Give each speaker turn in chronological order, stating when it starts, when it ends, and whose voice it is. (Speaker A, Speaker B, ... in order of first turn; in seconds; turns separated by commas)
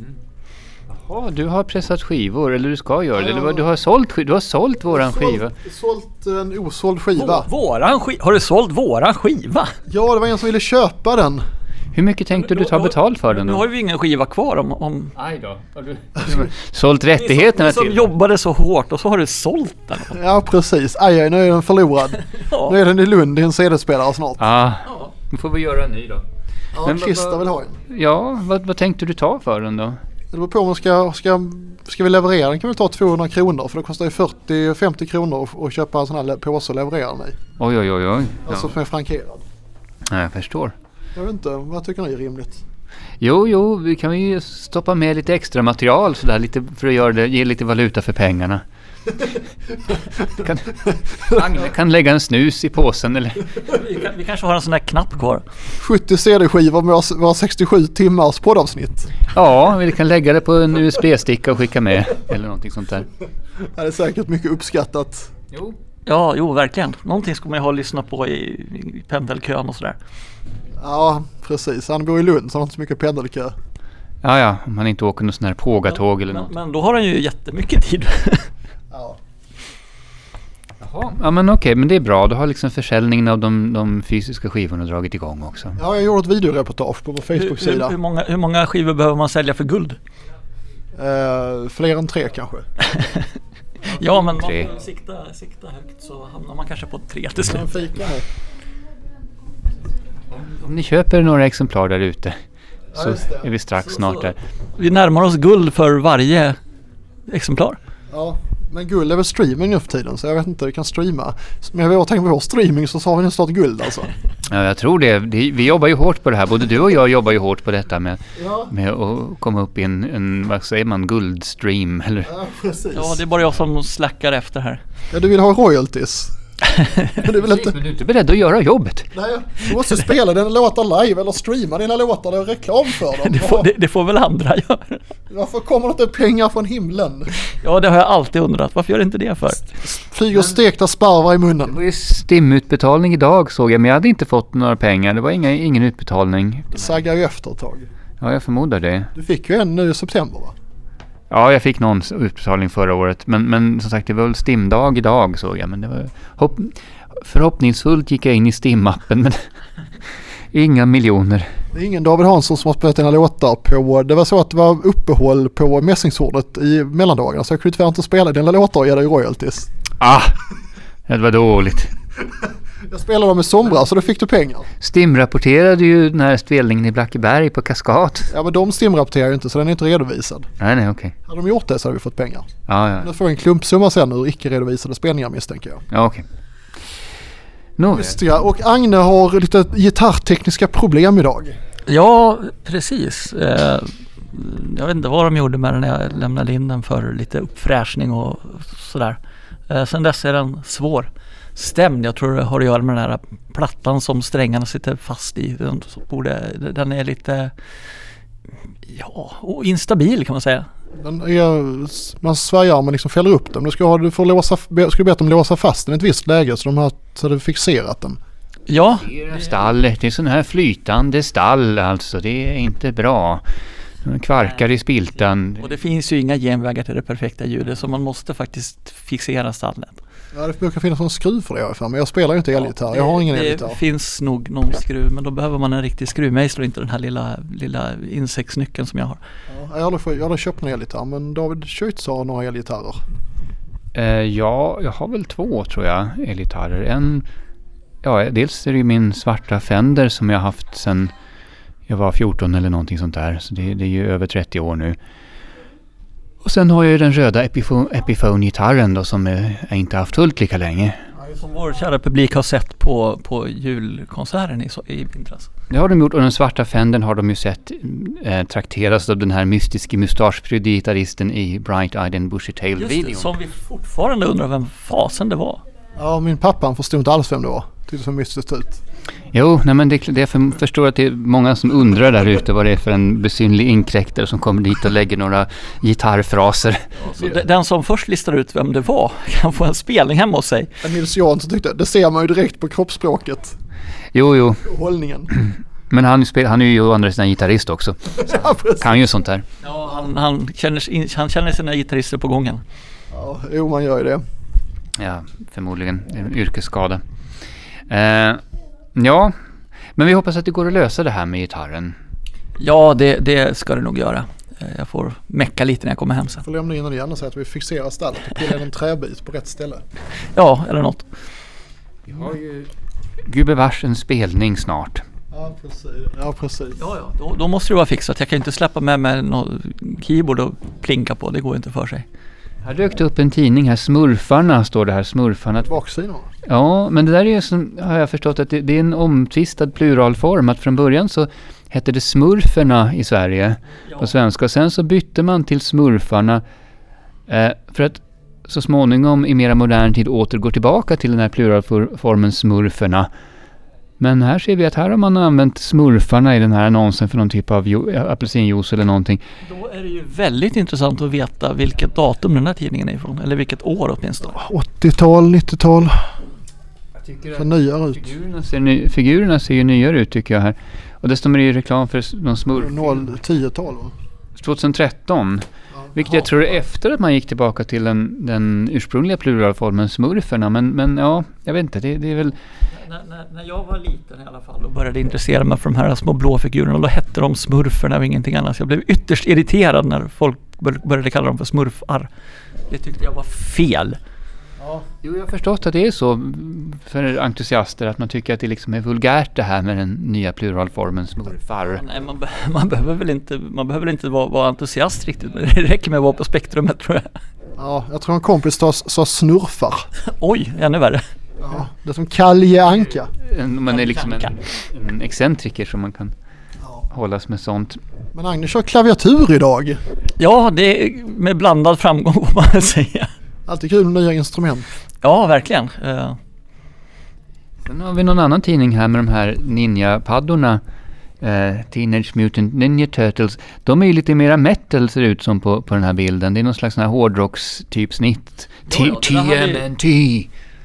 Speaker A: 0.9-5.5, Speaker B: 3.1-3.7, Speaker B: 4.9-7.5, Speaker C: 7.2-9.8, Speaker B: 9.9-11.4, Speaker A: 11.9-13.7, Speaker C: 12.3-15.1, Speaker A: 15.1-18.1, Speaker C: 17.2-20.2, Speaker B: 20.1-24.4, Speaker C: 22.4-22.8, Speaker A: 24.4-26.2, Speaker B: 26.7-27.8, Speaker A: 26.8-30.0, Speaker B: 30.3-37.4, Speaker A: 37.6-38.7, Speaker B: 38.5-39.4, Speaker A: 40.1-40.7, Speaker B: 41.1-42.6, Speaker A: 43.2-48.6, Speaker A: 50.3-53.5, Speaker C: 53.6-55.4, Speaker B: 55.8-59.2, Speaker A: 59.3-63.1, Speaker B: 63.6-65.3, Speaker A: 65.5-65.8, Speaker C: 66.1-70.0, Speaker B: 70.8-73.5, Speaker A: 74.2-76.5, Speaker C: 75.9-78.5, Speaker B: 78.9-79.2, Speaker A: 80.8-85.8, Speaker B: 85.8-88.0, Speaker C: 87.3-90.0, Speaker B: 90.9-92.7, Speaker C: 93.9-98.0, Speaker A: 94.3-94.7, Speaker B: 97.4-98.2, Speaker A: 100.3-102.3, Speaker B: 102.9-103.5, Speaker A: 103.0-104.4, Speaker C: 103.8-106.6, Speaker C: 107.3-107.8, Speaker B: 108.1-114.1, Speaker A: 114.5-122.3, Speaker B: 118.4-118.7, Speaker B: 122.2-123.2, Speaker C: 122.9-124.8, Speaker B: 125.1-126.3, Speaker B: 127.1-127.8, Speaker A: 127.2-129.1, Speaker B: 129.1-133.7, Speaker C: 133.0-135.0, Speaker B: 135.3-137.4, Speaker C: 137.6-139.8, Speaker B: 139.8-141.8, Speaker A: 141.7-146.9, Speaker B: 146.7-147.8, Speaker A: 148.2-149.1, Speaker B: 149.1-150.5, Speaker A: 151.3-159.3, Speaker A: 160.5-161.4, Speaker B: 161.7-169.7, Speaker A: 170.0-170.4, Speaker A: 171.1-171.9, Speaker B: 172.8-174.7, Speaker A: 174.8-178.3, Speaker B: 178.3-180.5, Speaker A: 180.6-181.1, Speaker B: 181.2-185.8, Speaker A: 182.7-183.1, Speaker A: 185.9-186.2, Speaker A: 187.8-188.2, Speaker B: 187.8-191.6, Speaker C: 191.9-199.2, Speaker C: 199.7-207.5, Speaker C: 208.9-210.7, Speaker B: 210.9-218.2, Speaker C: 218.7-219.5, Speaker A: 218.9-223.4, Speaker A: 224.0-225.7, Speaker C: 225.6-230.0, Speaker B: 230.3-233.8, Speaker C: 232.5-239.2, Speaker B: 239.5-243.0, Speaker A: 243.9-247.2, Speaker A: 248.0-251.1, Speaker A: 251.9-255.0, Speaker A: 256.4-261.0, Speaker C: 261.2-265.5, Speaker A: 265.7-273.3, Speaker C: 272.8-275.6, Speaker B: 275.9-278.8, Speaker A: 279.3-286.9, Speaker C: 287.0-290.7, Speaker B: 290.8-293.6, Speaker A: 294.1-294.6, Speaker B: 294.6-295.3, Speaker A: 295.3-299.4, Speaker B: 298.1-298.9, Speaker C: 299.6-302.6, Speaker B: 303.1-304.2, Speaker A: 305.0-307.0, Speaker A: 307.9-308.4, Speaker A: 308.9-309.3, Speaker A: 309.9-311.9, Speaker C: 312.6-316.4, Speaker B: 316.4-319.8, Speaker C: 320.4-321.0, Speaker A: 322.1-322.7, Speaker A: 323.3-325.0, Speaker B: 325.3-326.8, Speaker C: 326.8-332.1, Speaker A: 332.6-335.7, Speaker B: 335.6-336.3, Speaker A: 336.4-346.4, Speaker C: 343.9-344.1, Speaker A: 347.3-353.1, Speaker A: 354.0-359.2, Speaker C: 359.4-364.4, Speaker B: 364.2-366.0, Speaker A: 367.0-373.1, Speaker B: 367.3-368.1, Speaker B: 372.6-373.9, Speaker A: 374.4-382.4, Speaker B: 375.7-376.2, Speaker C: 382.7-392.1, Speaker C: 392.7-394.0, Speaker B: 394.6-394.9, Speaker A: 395.0-401.9, Speaker C: 401.7-407.1, Speaker B: 407.6-409.9, Speaker C: 410.1-411.0, Speaker B: 411.4-413.1, Speaker A: 413.1-416.1, Speaker C: 413.7-414.3, Speaker B: 416.6-416.9, Speaker A: 416.9-417.8, Speaker B: 418.1-419.8, Speaker C: 420.2-423.1, Speaker B: 423.4-424.7, Speaker C: 425.0-426.2, Speaker A: 427.6-430.6, Speaker A: 431.2-440.3, Speaker C: 438.7-439.6